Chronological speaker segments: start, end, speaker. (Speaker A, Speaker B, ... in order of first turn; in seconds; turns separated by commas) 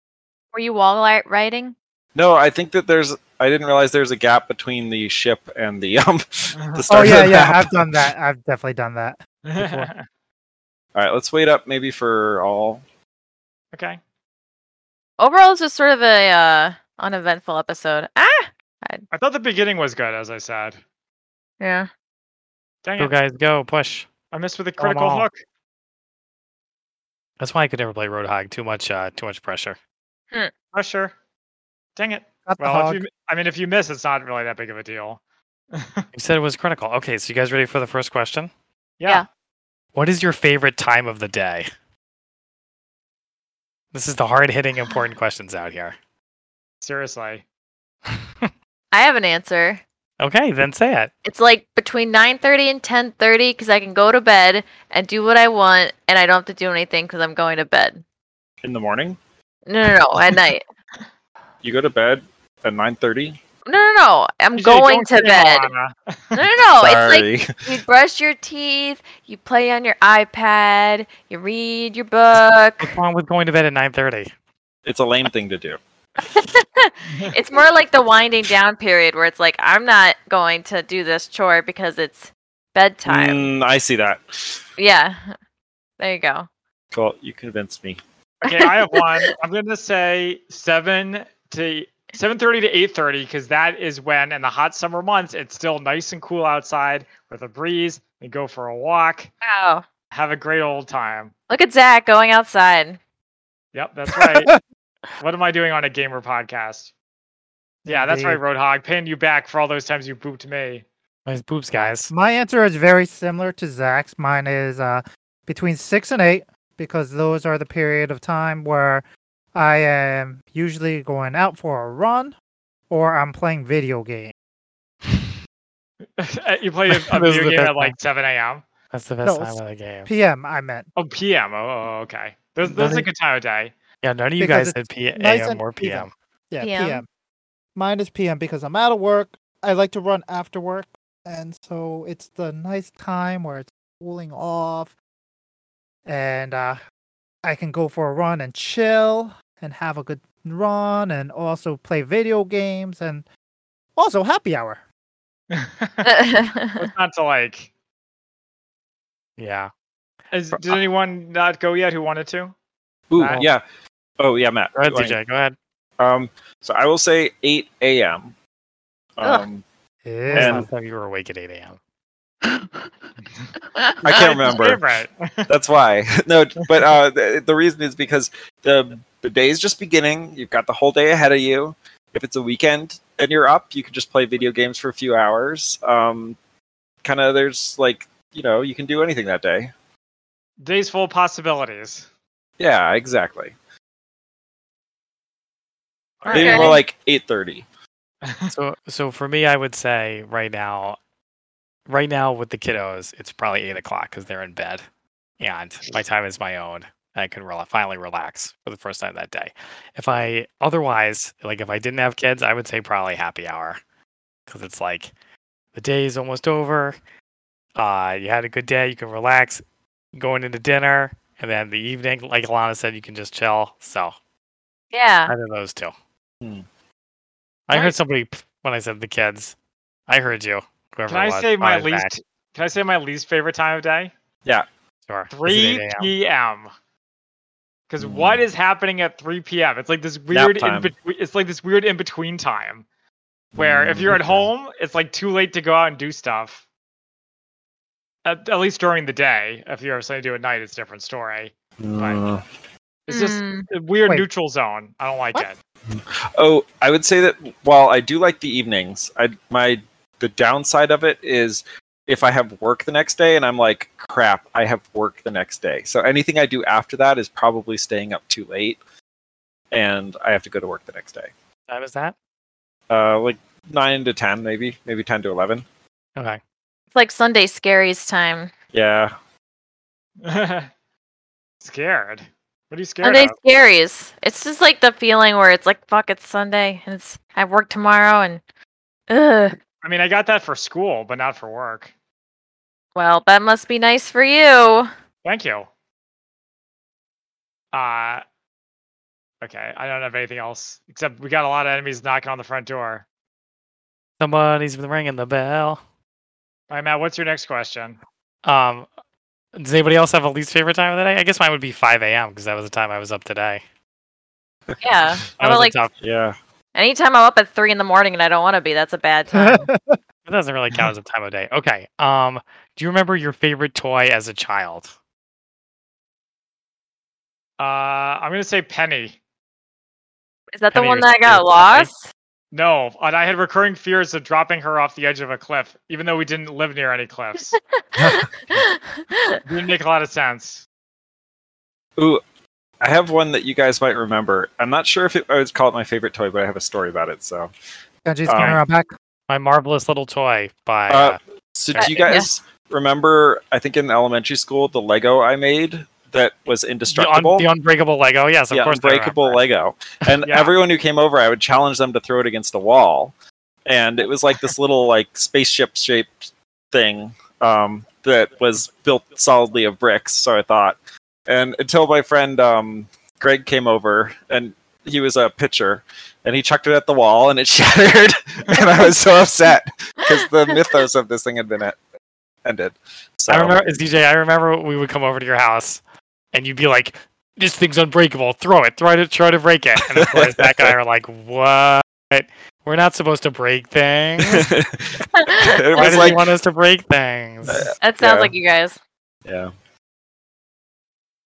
Speaker A: 0.5-1.7, Speaker B: 2.1-8.0, Speaker C: 6.5-7.3, Speaker D: 6.9-9.9, Speaker C: 9.4-10.0, Speaker B: 10.9-12.8, Speaker C: 13.7-14.0, Speaker A: 15.2-19.0, Speaker C: 19.1-20.8, Speaker A: 21.6-21.9, Speaker C: 22.8-23.1, Speaker E: 23.0-24.1, Speaker C: 24.3-25.4, Speaker E: 24.8-25.3, Speaker E: 27.4-29.8, Speaker C: 30.7-31.1, Speaker C: 31.9-35.2, Speaker D: 32.5-33.0, Speaker C: 35.7-36.0, Speaker E: 36.1-38.5, Speaker C: 39.0-39.2, Speaker E: 39.9-41.7, Speaker E: 43.9-45.9, Speaker C: 46.8-47.4, Speaker E: 48.1-48.5, Speaker A: 48.9-49.8, Speaker E: 50.2-51.1, Speaker A: 51.2-58.0, Speaker B: 58.6-59.2, Speaker A: 59.7-60.6, Speaker B: 61.6-63.4, Speaker A: 63.6-65.7, Speaker C: 64.6-66.3, Speaker A: 66.3-72.9, Speaker B: 66.8-67.5, Speaker E: 72.8-74.3, Speaker B: 74.8-75.8, Speaker A: 76.2-83.5, Speaker B: 83.0-84.6, Speaker A: 84.8-85.2, Speaker A: 86.0-86.5, Speaker B: 86.9-88.0, Speaker C: 88.4-99.3, Speaker A: 88.4-89.3, Speaker A: 99.4-99.8, Speaker C: 100.1-101.3, Speaker A: 101.5-103.0, Speaker C: 103.7-104.5, Speaker D: 104.1-104.6, Speaker C: 105.2-106.9, Speaker D: 107.8-108.4, Speaker C: 107.9-110.8, Speaker E: 111.3-112.1, Speaker D: 112.1-122.3, Speaker D: 122.9-124.3, Speaker C: 126.2-128.7, Speaker E: 126.9-128.0, Speaker E: 128.9-130.1, Speaker D: 129.2-130.9, Speaker C: 130.9-133.7, Speaker E: 132.6-133.1, Speaker E: 134.0-136.1, Speaker D: 134.4-137.1, Speaker A: 136.6-137.0, Speaker D: 137.7-144.9, Speaker D: 146.1-146.8, Speaker D: 147.4-153.2, Speaker D: 153.9-154.8, Speaker C: 155.5-156.1, Speaker A: 156.0-156.9, Speaker C: 156.8-157.7, Speaker E: 159.4-159.7, Speaker C: 160.3-162.5, Speaker E: 160.5-160.8, Speaker B: 163.1-163.6, Speaker C: 163.2-163.4, Speaker B: 164.2-165.2, Speaker E: 164.8-165.6, Speaker B: 166.0-168.3, Speaker B: 169.2-169.6, Speaker D: 170.0-170.7, Speaker E: 170.3-171.8, Speaker B: 170.4-170.6, Speaker A: 173.8-174.2, Speaker B: 174.0-174.8, Speaker C: 174.1-175.5, Speaker B: 175.5-186.4, Speaker B: 187.0-189.7, Speaker C: 190.6-192.1, Speaker B: 192.6-193.5, Speaker C: 196.2-196.8, Speaker B: 196.3-197.6, Speaker A: 196.3-196.8, Speaker C: 198.2-198.5, Speaker E: 198.5-201.0, Speaker E: 201.9-204.8, Speaker E: 205.4-213.8, Speaker E: 214.5-215.1, Speaker E: 215.7-217.0, Speaker E: 217.8-219.6, Speaker E: 220.1-224.2, Speaker A: 224.9-225.3, Speaker E: 225.3-225.9, Speaker E: 227.7-229.5, Speaker C: 227.7-227.9, Speaker E: 230.1-232.1, Speaker C: 231.1-234.1, Speaker E: 235.1-236.1, Speaker C: 235.3-236.7, Speaker C: 237.9-242.8, Speaker B: 238.0-238.4, Speaker B: 240.3-240.9, Speaker B: 243.5-244.5, Speaker C: 243.6-246.6, Speaker C: 248.2-252.2, Speaker B: 251.8-252.4, Speaker C: 253.1-255.6, Speaker A: 253.1-253.7, Speaker B: 255.9-268.8, Speaker B: 269.7-271.3, Speaker E: 271.7-272.1, Speaker B: 272.9-275.6, Speaker A: 276.9-278.5, Speaker B: 278.7-279.1, Speaker C: 280.2-280.7, Speaker C: 281.6-283.3, Speaker A: 283.0-288.4, Speaker A: 289.1-289.6, Speaker C: 289.8-291.9, Speaker A: 292.9-294.9, Speaker C: 295.2-295.7, Speaker C: 297.7-298.2, Speaker C: 299.4-303.0, Speaker E: 304.2-305.8, Speaker C: 306.7-308.0, Speaker E: 308.4-308.9, Speaker E: 309.6-313.6, Speaker A: 314.8-315.8, Speaker E: 315.4-315.9, Speaker B: 316.0-316.4, Speaker A: 316.7-319.6, Speaker D: 319.3-320.0, Speaker E: 320.2-324.9, Speaker C: 327.6-329.2, Speaker A: 330.5-332.1, Speaker E: 330.7-331.9, Speaker C: 332.5-337.6, Speaker A: 337.9-339.4, Speaker B: 338.0-338.2, Speaker C: 339.4-340.6, Speaker B: 342.8-347.5, Speaker D: 348.0-348.9, Speaker B: 348.3-348.6, Speaker E: 349.3-351.2, Speaker B: 350.9-357.5, Speaker E: 351.7-352.2, Speaker A: 351.8-352.3, Speaker E: 356.9-359.4, Speaker B: 358.5-363.1, Speaker C: 360.2-360.5, Speaker B: 363.6-381.8, Speaker B: 382.4-383.6, Speaker E: 383.3-385.8, Speaker E: 386.3-394.5, Speaker B: 389.9-390.7, Speaker B: 394.2-396.3, Speaker A: 395.1-396.2, Speaker E: 395.7-397.7, Speaker B: 397.4-398.3, Speaker A: 397.8-398.8, Speaker B: 399.2-399.5